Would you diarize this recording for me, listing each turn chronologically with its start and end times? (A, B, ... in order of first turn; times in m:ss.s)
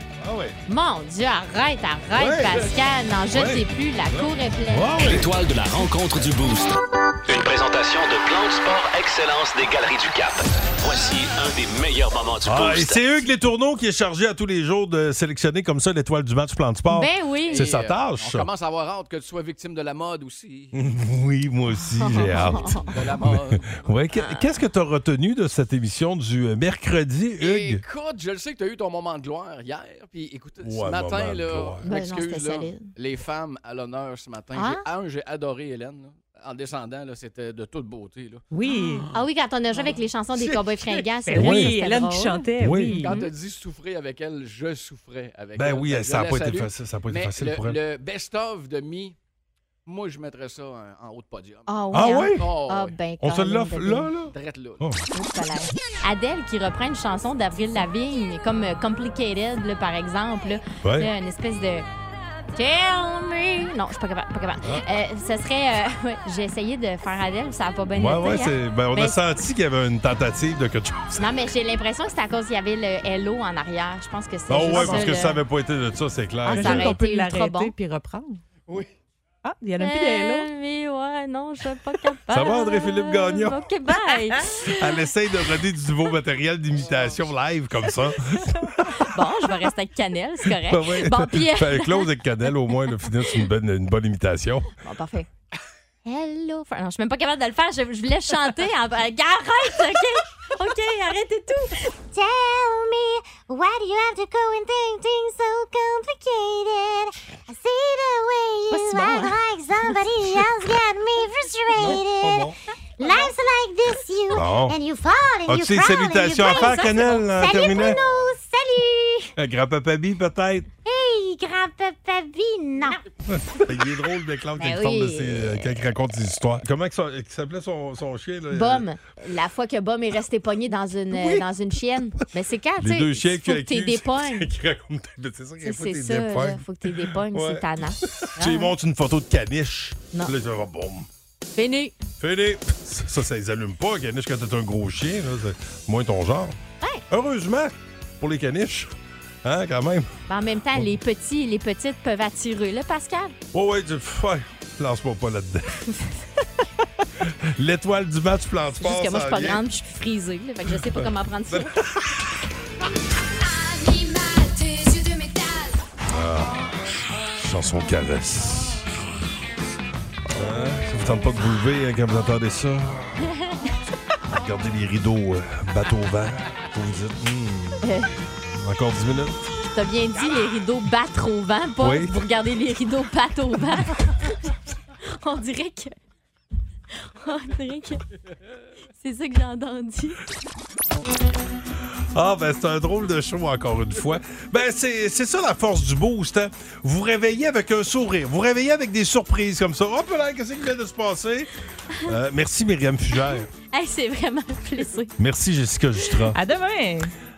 0:00.2-0:00.6 A
0:00.7-0:05.0 B
0:02.2-0:02.7 A
0:03.3-0:05.3 A
0:05.0-0:13.0 C
0:12.4-0:18.5 A
0:16.9-0:17.7 B
0:17.4-0:20.7 D
0:20.8-0:27.8 A
0:22.0-0:22.9 B
0:22.9-0:23.9 D
0:24.1-0:24.5 B
0:27.4-0:39.1 D
0:30.6-0:31.8 A
0:31.8-0:32.9 B
0:34.5-0:34.8 B
0:38.5-0:39.1 E
0:39.1-0:42.4 B
0:39.7-0:41.1 D
0:41.2-0:43.2 E
0:41.3-0:41.8 A
0:42.6-0:43.0 A
0:43.0-0:49.1 D
0:43.0-0:43.3 B
0:45.6-0:47.8 A
0:49.8-0:51.8 D
0:51.7-0:54.1 B
0:51.9-0:52.4 A
0:52.4-0:53.0 D
0:53.2-0:55.0 A
0:54.3-0:54.9 D
0:55.1-1:01.8 B
1:00.8-1:01.1 A
1:02.5-1:09.2 B
1:07.9-1:11.3 A
1:11.2-1:15.4 B
1:14.5-1:16.9 A
1:14.7-1:15.2 E
1:16.4-1:17.7 B
1:16.5-1:18.4 E
1:19.4-1:20.5 E
1:19.8-1:25.0 B
1:22.3-1:23.7 A
1:24.1-1:24.3 E
1:24.6-1:29.0 A
1:26.7-1:27.3 D
1:28.9-1:32.1 B
1:30.4-1:34.7 A
1:34.8-1:35.3 B
1:36.0-1:41.9 B
1:42.1-1:56.6 F
1:48.7-1:49.4 B
1:51.8-1:52.5 A
1:53.0-1:53.3 B
1:54.3-1:54.8 A
1:55.4-1:58.0 A
1:56.4-1:57.3 B
1:57.3-1:59.3 F
1:59.4-2:00.7 A
2:00.8-2:03.0 F
2:03.3-2:08.9 A
2:04.6-2:05.7 B
2:08.5-2:14.5 B
2:11.1-2:11.5 A
2:12.8-2:21.1 A
2:15.6-2:18.7 B
2:21.6-2:21.9 B
2:22.2-2:26.6 A
2:27.1-2:30.1 A
2:30.3-2:33.3 B
2:33.5-2:35.8 A
2:37.2-2:39.6 A
2:38.8-2:41.8 B
2:40.7-2:42.4 A
2:46.1-2:48.9 A
2:50.3-2:53.3 A
2:54.3-2:57.9 A
2:57.8-2:58.1 B
2:58.4-2:59.5 A
2:59.7-3:04.5 B
3:01.8-3:02.1 A
3:05.2-3:05.9 B
3:07.1-3:08.0 B
3:09.0-3:10.2 B
3:12.1-3:21.5 A
3:22.0-3:23.5 A
3:23.3-3:25.1 B
3:25.2-3:26.4 A
3:26.3-3:27.1 E